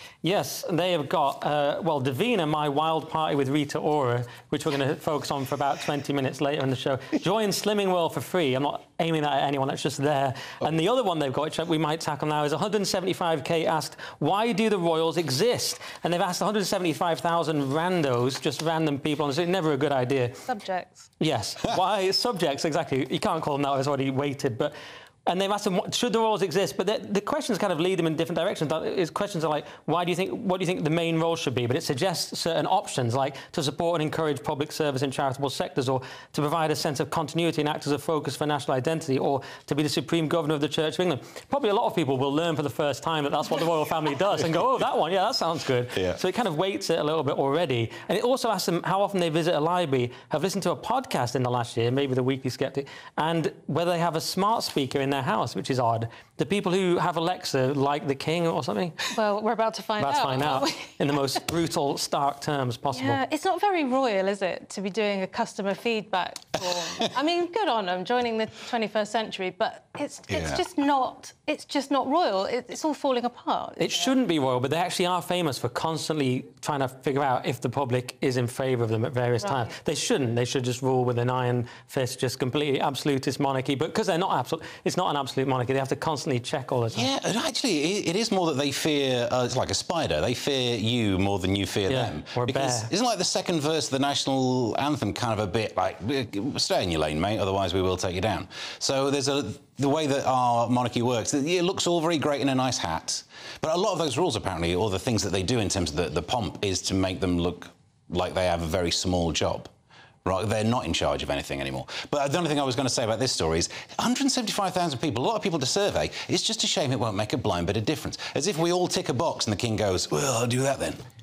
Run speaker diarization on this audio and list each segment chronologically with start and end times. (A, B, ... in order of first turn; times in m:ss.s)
0:00.2-0:20.5 A
0:20.4-0:21.1 B
0:21.2-0:24.7 A
0:25.2-0:59.1 A
0:59.1-1:01.1 B
1:00.0-1:03.2 A
1:02.9-1:14.1 B
1:10.3-1:10.6 C
1:13.8-1:27.1 A
1:26.9-1:49.7 C
1:31.9-1:32.9 A
1:50.2-2:01.0 C